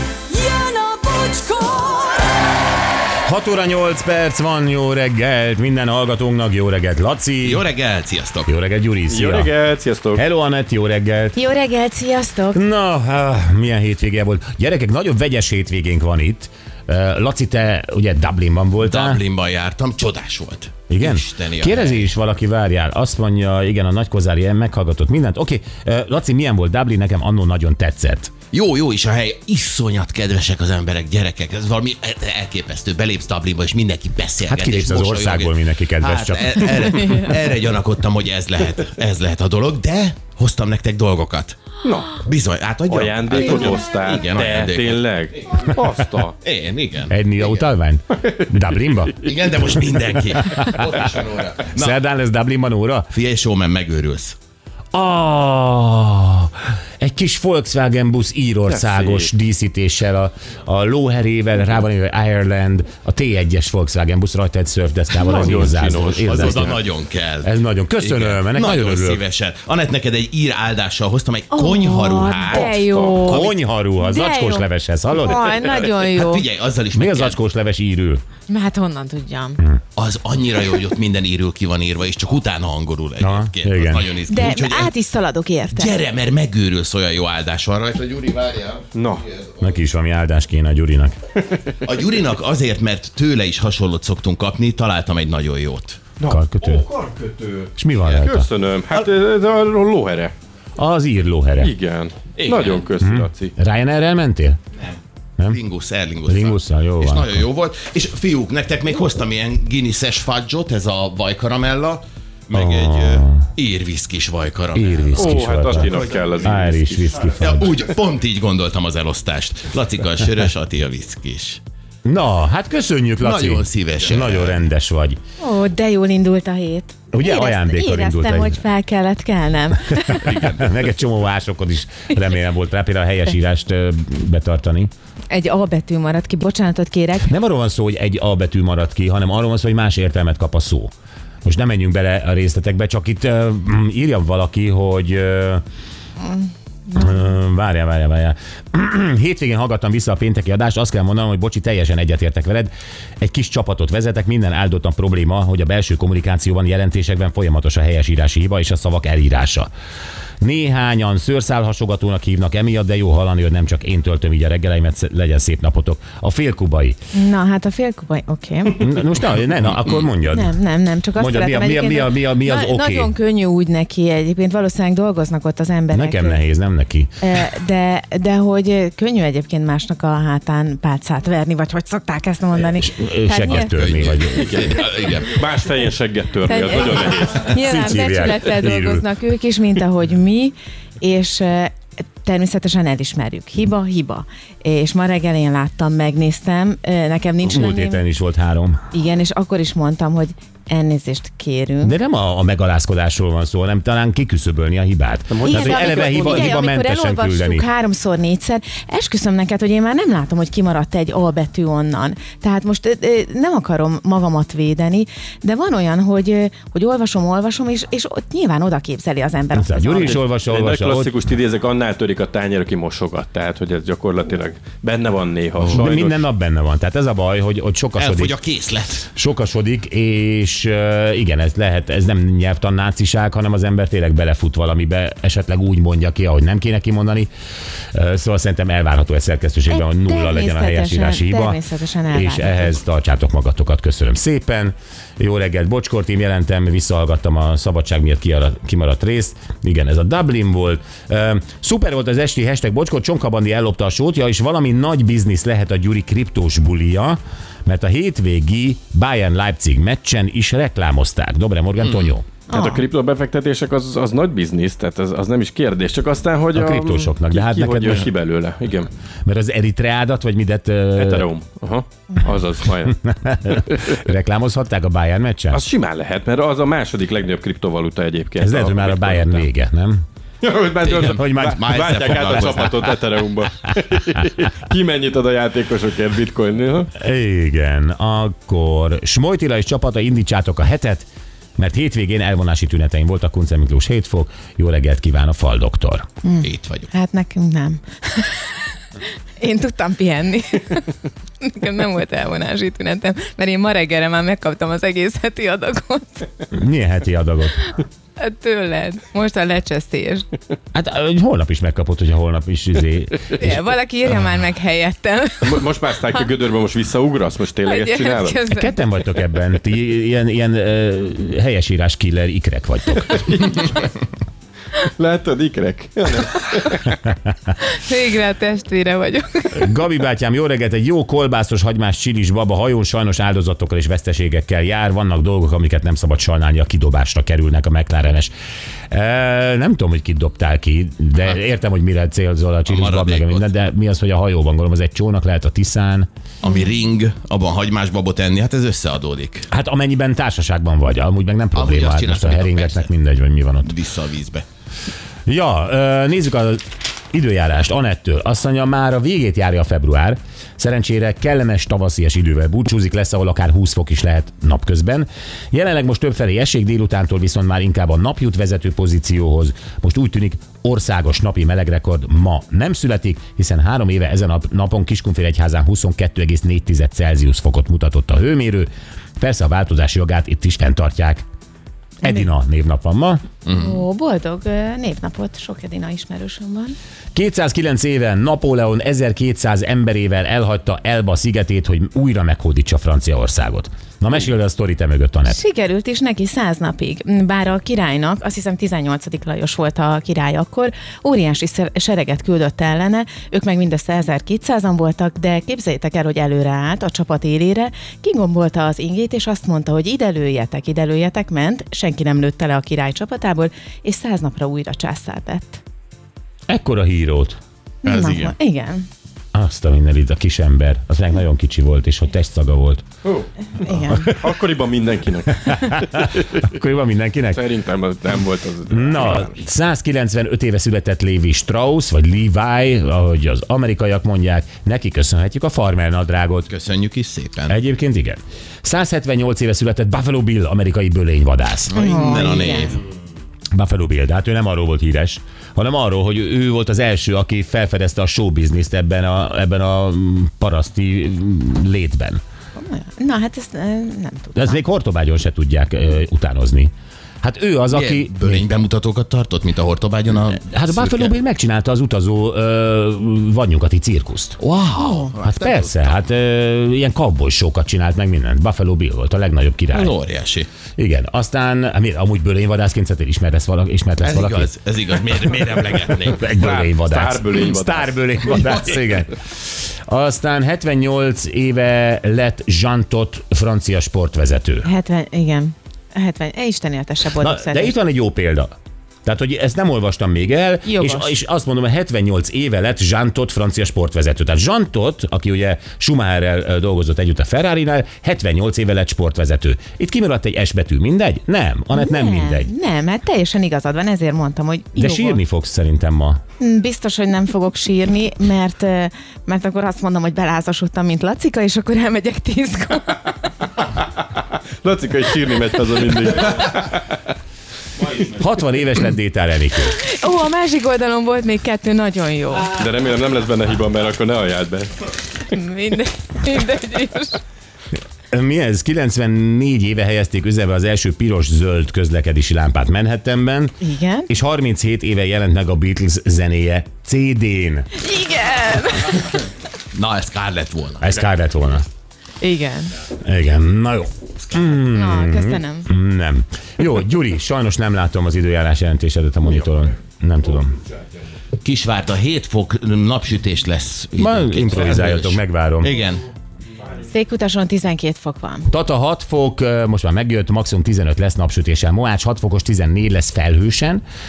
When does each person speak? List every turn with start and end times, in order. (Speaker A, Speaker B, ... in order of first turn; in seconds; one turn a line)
Speaker A: 0.3-2.5
Speaker B: 3.2-7.7
Speaker C: 7.4-8.5
Speaker B: 8.5-9.5
Speaker D: 9.1-10.2
Speaker B: 10.2-11.4
Speaker E: 11.4-12.6
Speaker B: 12.5-19.2
Speaker C: 18.8-22.1
Speaker B: 20.9-28.3
Speaker C: 28.5-41.6
Speaker B: 34.5-36.9
Speaker E: 36.8-37.3
Speaker D: 41.8-42.2
Speaker C: 42.2-45.7
Speaker D: 42.9-46.4
Speaker C: 46.4-47.6
Speaker B: 47.1-49.2
Speaker C: 49.2-52.0
Speaker B: 50.4-51.1
Speaker B: 51.7-53.1
Speaker C: 53.1-54.4
Speaker B: 54.9-66.8
Speaker D: 58.7-59.3
Speaker D: 65.1-66.8
Speaker C: 66.2-72.8
Speaker B: 67.4-69.2
Speaker E: 71.5-76.5
Speaker D: 72.5-73.3
Speaker B: 73.2-75.7
Speaker C: 76.1-77.4
Speaker B: 76.9-78.2
Speaker E: 78.5-79.6
Speaker C: 80.0-84.9
Speaker B: 83.2-84.1
Speaker E: 84.3-86.0
Speaker C: 85.7-89.7
Speaker D: 88.9-89.3
Speaker B: 89.6-91.2
Speaker C: 91.8-96.0
Speaker D: 96.2-100.3
Speaker B: 96.3-96.9
Speaker B: 97.8-98.5
Speaker B: 100.8-101.7
Speaker D: 101.6-103.5
Speaker C: 102.4-102.9
Speaker B: 103.0-104.6
Speaker C: 105.5-115.4
Speaker B: 106.2-107.5
Speaker B: 112.5-113.5
Speaker B: 114.8-117.7
Speaker D: 115.1-117.2
Speaker C: 117.4-121.6
Speaker B: 122.0-125.2
Speaker C: 123.2-124.6
Speaker E: 125.4-130.3
Speaker B: 127.1-128.6
Speaker C: 130.2-130.8
Speaker B: 130.3-134.9
Speaker E: 135.3-137.3
Speaker B: 137.3-140.9
Speaker B: 141.4-145.6
Speaker B: 146.9-159.7
Speaker B: 160.4-167.0
Speaker E: 167.1-168.9
Speaker B: 168.7-170.6
Speaker E: 170.3-176.4
Speaker B: 171.2-173.1
Speaker B: 175.9-177.1
Speaker E: 177.2-184.1
Speaker B: 182.8-184.6
Speaker C: 183.5-185.4
Speaker D: 184.4-187.5
Speaker E: 186.5-198.0
Speaker B: 187.5-189.1
Speaker B: 197.4-198.8
Speaker E: 198.9-201.9
Speaker B: 201.8-207.7
Speaker D: 205.3-206.5
Speaker E: 205.5-220.2
Speaker B: 219.5-221.1
Speaker D: 220.1-226.2
Speaker B: 225.7-228.3
Speaker C: 228.0-229.1
Speaker B: 229.1-237.3
Speaker B: 237.9-262.3
Speaker E: 239.7-242.8
Speaker E: 262.5-262.8
Speaker D: 262.5-268.9
Speaker B: 266.5-268.1
Speaker B: 269.3-271.3
Speaker D: 271.0-273.0
Speaker B: 272.9-275.7
Speaker D: 275.5-279.5
Speaker B: 278.4-280.0
Speaker D: 280.4-286.9
Speaker C: 280.8-282.9
Speaker B: 281.1-282.4
Speaker B: 287.0-291.1
Speaker B: 291.6-296.1
Speaker E: 296.2-298.6
Speaker C: 296.4-296.9
Speaker E: 299.4-306.3
Speaker B: 306.5-307.6
Speaker E: 308.2-310.3
Speaker B: 310.7-313.6
Speaker E: 313.4-315.6
Speaker D: 315.4-318.4
Speaker E: 317.7-318.8
Speaker B: 318.5-323.2
Speaker D: 323.1-323.9
Speaker D: 324.8-326.9
Speaker E: 327.6-329.7
Speaker B: 329.5-338.3
Speaker B: 338.9-346.1
Speaker C: 342.7-343.5
Speaker C: 346.4-349.5
Speaker B: 349.5-353.7
Speaker C: 351.6-352.9
Speaker C: 353.6-354.4
Speaker B: 355.3-381.3
Speaker B: 382.0-383.2
Speaker C: 383.5-383.8
Speaker E: 383.5-386.8
Speaker B: 387.1-395.4
Speaker E: 395.3-415.6
Speaker B: 416.5-417.4
Speaker E: 417.8-418.9
Speaker C: 417.9-418.3
Speaker B: 419.3-422.9
Speaker E: 423.6-424.1
Speaker B: 423.9-424.1
Speaker D: 424.1-426.4
Speaker B: 425.4-427.4
Speaker D: 427.3-429.4
Speaker B: 428.7-436.5
Speaker C: 436.5-437.6
Speaker B: 437.5-441.8
Speaker C: 441.7-442.8
Speaker E: 441.7-442.8
Speaker B: 443.5-452.2
Speaker E: 452.6-454.6
Speaker B: 454.4-456.7
Speaker B: 457.2-458.5
Speaker C: 457.7-461.1
Speaker B: 460.3-464.4
Speaker C: 464.4-465.9
Speaker E: 464.8-465.1
Speaker B: 465.2-470.0
Speaker C: 469.7-470.5
Speaker B: 470.8-474.5
Speaker C: 474.0-476.3
Speaker B: 476.1-484.7
Speaker D: 476.3-478.0
Speaker E: 484.6-487.8
Speaker B: 487.2-488.5
Speaker B: 489.1-502.5
Speaker E: 490.7-491.1
Speaker E: 501.7-505.2
Speaker B: 504.8-506.2
Speaker E: 506.4-513.3
Speaker D: 514.6-516.9
Speaker B: 518.1-519.8
Speaker E: 519.8-522.5
Speaker D: 522.5-524.7
Speaker E: 525.2-527.2
Speaker B: 528.1-533.6
Speaker E: 533.6-534.1
Speaker B: 534.1-537.7
Speaker E: 537.8-539.2
Speaker C: 539.7-541.0
Speaker B: 540.8-541.7
Speaker E: 542.2-542.7
Speaker B: 543.0-550.6
Speaker E: 544.6-545.7
Speaker C: 551.4-556.1
Speaker B: 554.0-555.7
Speaker E: 556.8-558.5
Speaker B: 558.5-563.8